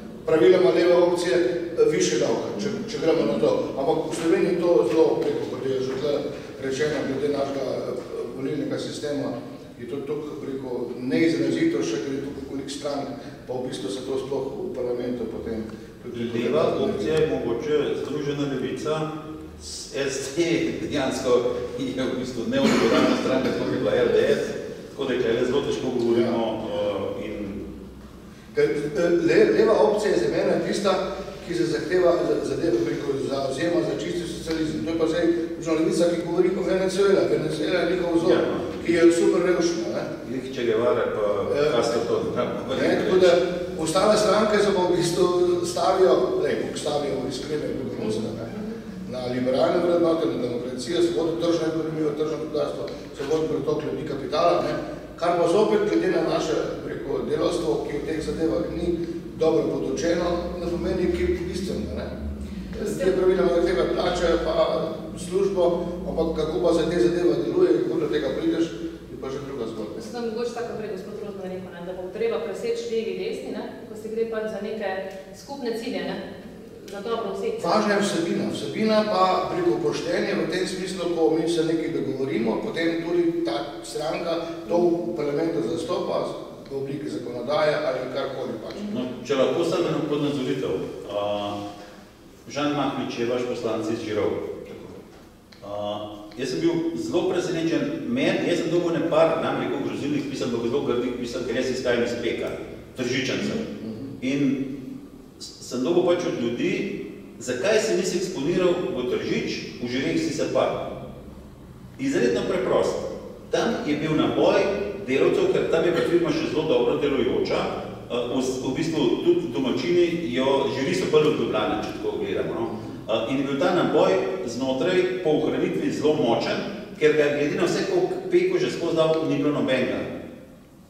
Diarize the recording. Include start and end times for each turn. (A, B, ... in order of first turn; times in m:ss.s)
0:00.2-0:17.2 A
0:16.1-0:27.6 B
0:26.1-0:26.4 A
0:28.5-0:40.1 A
0:38.2-0:39.0 B
0:40.2-0:43.4 B
0:41.5-0:41.8 A
0:42.7-1:02.1 A
1:02.7-1:10.0 A
1:02.8-1:03.1 C
1:09.9-1:16.2 C
1:16.8-1:17.8 C
1:17.6-1:28.9 A
1:28.9-1:31.6 B
1:32.4-1:34.5 B
1:34.7-1:35.0 A
1:35.6-1:43.6 B
1:43.5-1:44.1 A
1:44.2-1:44.6 B
1:45.4-1:50.8 B
1:52.0-2:10.1 B